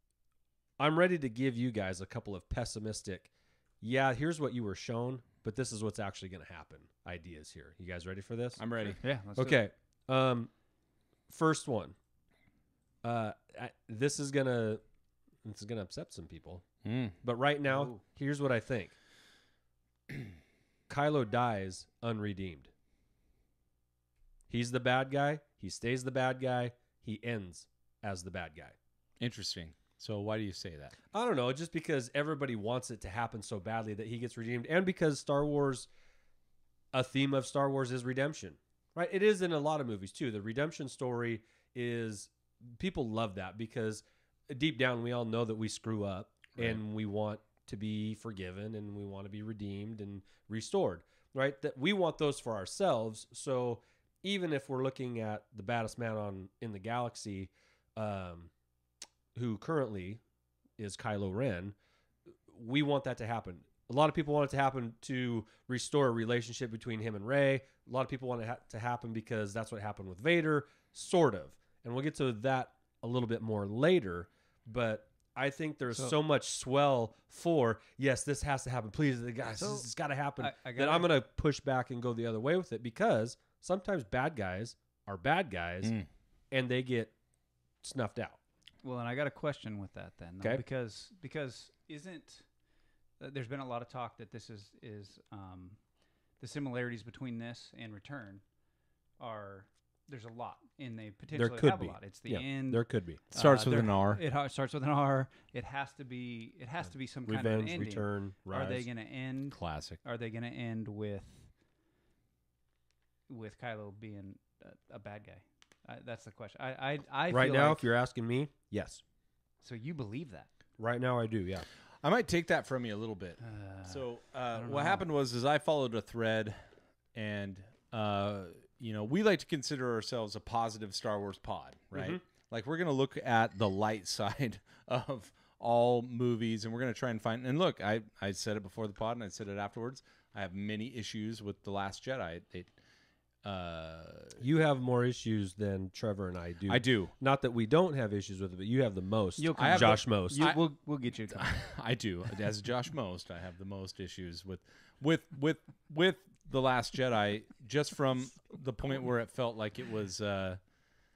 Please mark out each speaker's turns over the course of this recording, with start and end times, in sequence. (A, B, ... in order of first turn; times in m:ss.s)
0:00.8-0:08.6 A
0:08.6-0:09.0 B
0:09.0-0:09.6 C
0:09.4-0:10.5 A
0:11.3-0:11.9 A
0:13.0-0:14.8 A
0:15.4-0:16.6 A
0:16.8-0:17.1 B
0:17.2-0:18.9 A
0:17.7-0:18.0 C
0:20.9-0:22.7 A
0:24.5-0:28.8 A
0:29.2-0:30.9 B
0:31.1-0:35.9 A
0:36.9-0:58.5 A
0:59.3-1:00.2 A
1:00.8-1:01.7 A
1:02.5-1:25.9 A
1:15.9-1:16.2 C
1:19.5-1:19.9 C
1:20.4-1:21.1 C
1:25.8-1:26.1 B
1:26.5-1:27.1 A
1:27.8-1:28.4 A
1:28.8-1:32.5 C
1:33.2-1:35.8 C
1:36.4-1:38.4 C
1:39.2-1:51.5 C
1:41.3-1:43.2 A
1:43.3-1:44.2 B
1:47.3-1:48.8 A
1:49.5-1:50.0 B
1:53.3-1:57.8 C
1:57.3-1:59.0 A
1:59.6-2:00.5 C
2:00.8-2:01.6 A
2:02.0-2:06.6 B
2:03.4-2:05.1 C
2:07.1-2:22.7 B
2:11.9-2:12.2 A
2:23.4-2:24.4 B
2:24.4-2:30.4 A
2:26.7-2:27.1 B
2:29.4-2:31.6 C
2:29.6-2:30.6 B
2:31.3-2:40.6 B